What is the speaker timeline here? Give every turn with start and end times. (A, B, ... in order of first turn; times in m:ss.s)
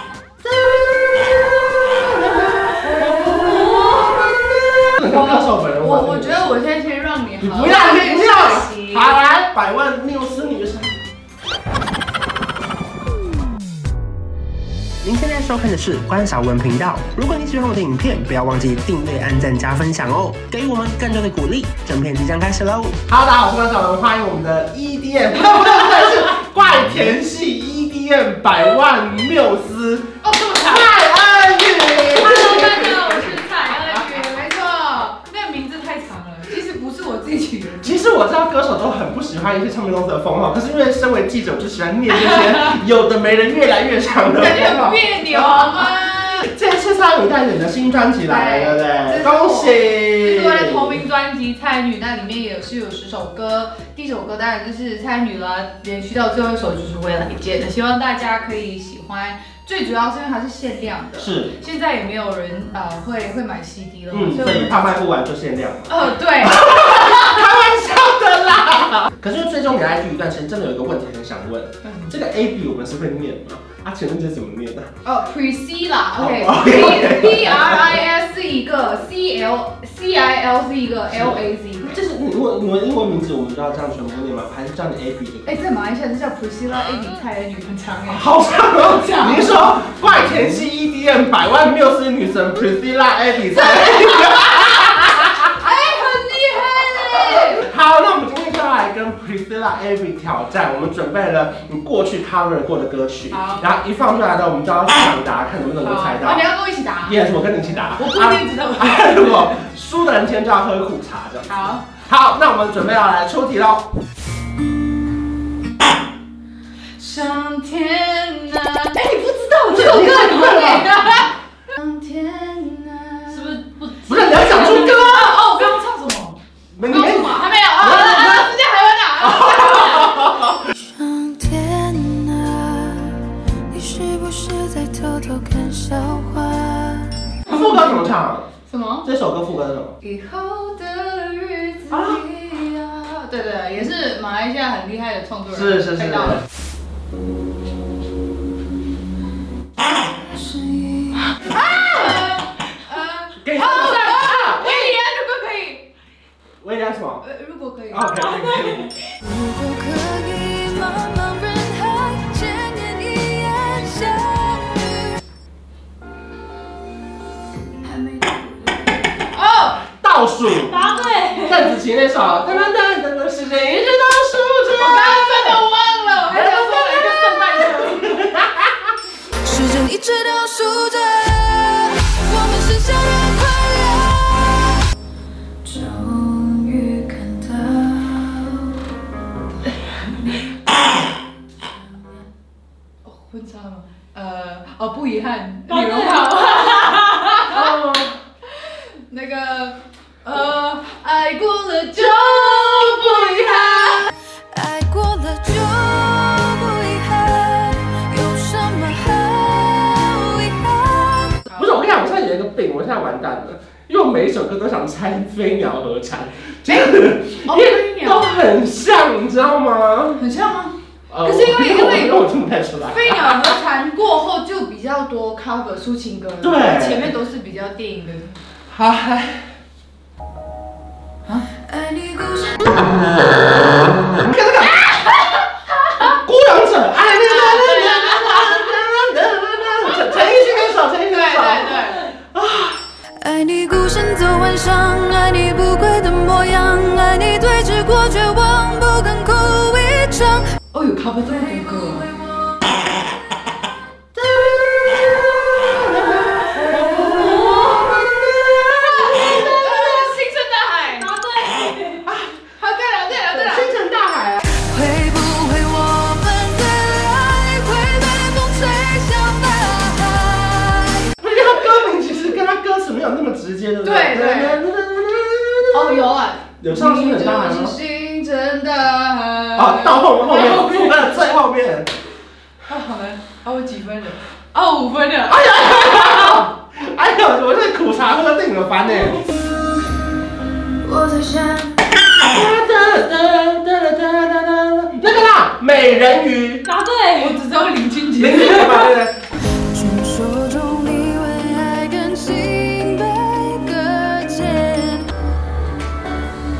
0:00.4-0:06.6 A
0:03.0-0:03.6 B
0:03.2-0:04.2 C
0:05.0-0:09.1 B
0:07.4-0:10.9 A
0:15.0-0:23.0 D
0:23.1-0:33.4 A
0:30.2-0:31.0 B
0:32.0-0:37.9 B
0:37.8-0:51.0 A
0:44.3-0:46.4 B
0:48.2-1:04.9 B
1:01.2-1:01.6 A
1:04.1-1:14.9 A
1:05.9-1:07.5 B
1:11.8-1:12.1 B
1:15.0-1:22.0 B
1:16.2-1:18.0 A
1:21.1-1:25.6 A
1:25.4-1:29.9 B
1:28.1-1:35.5 A
1:33.6-1:37.6 B
1:37.2-1:46.4 A
1:43.3-1:43.7 B
1:45.8-1:49.6 B
1:47.0-1:53.9 A
1:51.5-1:51.8 B
1:57.0-2:10.6 B
1:59.6-2:01.0 A
2:03.3-2:05.0 C
2:04.1-2:05.4 A
2:06.8-2:08.5 A
2:09.2-2:10.6 A
2:10.9-2:17.3 E
2:17.5-2:18.5 A
2:17.5-2:18.0 B
2:18.7-2:19.1 B
2:19.0-2:20.0 A
2:20.0-2:26.4 B
2:21.9-2:22.2 A
2:25.5-2:26.4 A
2:30.1-2:31.4 E
2:31.4-2:35.9 B
2:31.7-2:32.2 A
2:33.4-2:34.9 A
2:36.6-2:37.2 A
2:37.2-2:38.1 B
2:37.9-2:38.9 A
2:38.2-2:38.9 C
2:39.2-2:45.2 E
2:47.8-2:49.8 B
2:49.9-2:50.8 A
2:50.7-2:51.8 C
2:51.4-2:55.6 A
2:54.7-2:58.2 B
2:56.3-2:58.9 A
2:59.4-3:04.7 E
3:05.6-3:08.8 E
3:09.8-3:10.5 B
3:11.7-3:12.3 B
3:13.0-3:17.7 B
3:15.7-3:16.4 C
3:17.4-3:18.2 A
3:18.5-3:24.1 B
3:21.9-3:24.0 A
3:24.3-3:31.5 E
3:28.0-3:29.5 B
3:30.4-3:30.7 B
3:31.4-3:31.7 B
3:31.5-3:40.2 A
3:36.7-3:38.3 B
3:40.2-3:48.4 B
3:41.1-3:43.4 A
3:46.4-3:47.1 A
3:48.7-3:49.4 A
3:51.3-3:51.6 B
3:51.6-3:53.9 E
3:54.2-4:02.8 A
3:57.1-3:58.7 B
4:00.0-4:02.0 B
4:03.2-4:10.6 E
4:10.7-4:12.1 B
4:14.2-4:19.9 A
4:16.8-4:18.0 C
4:18.7-4:21.1 B
4:20.9-4:22.0 C
4:22.1-4:22.3 A
4:22.6-4:23.8 B
4:23.2-4:24.4 A
4:24.5-4:31.2 E
4:28.5-4:30.0 B
4:31.2-4:37.8 A
4:33.8-4:34.6 B
4:35.7-4:41.2 B
4:39.6-4:41.9 A
4:42.7-4:46.4 B
4:45.3-4:49.3 A
4:50.8-4:51.8 E
4:52.3-4:56.7 A
4:56.6-4:57.4 C
4:57.2-4:59.0 B
4:58.2-4:59.2 A
4:59.5-5:05.1 E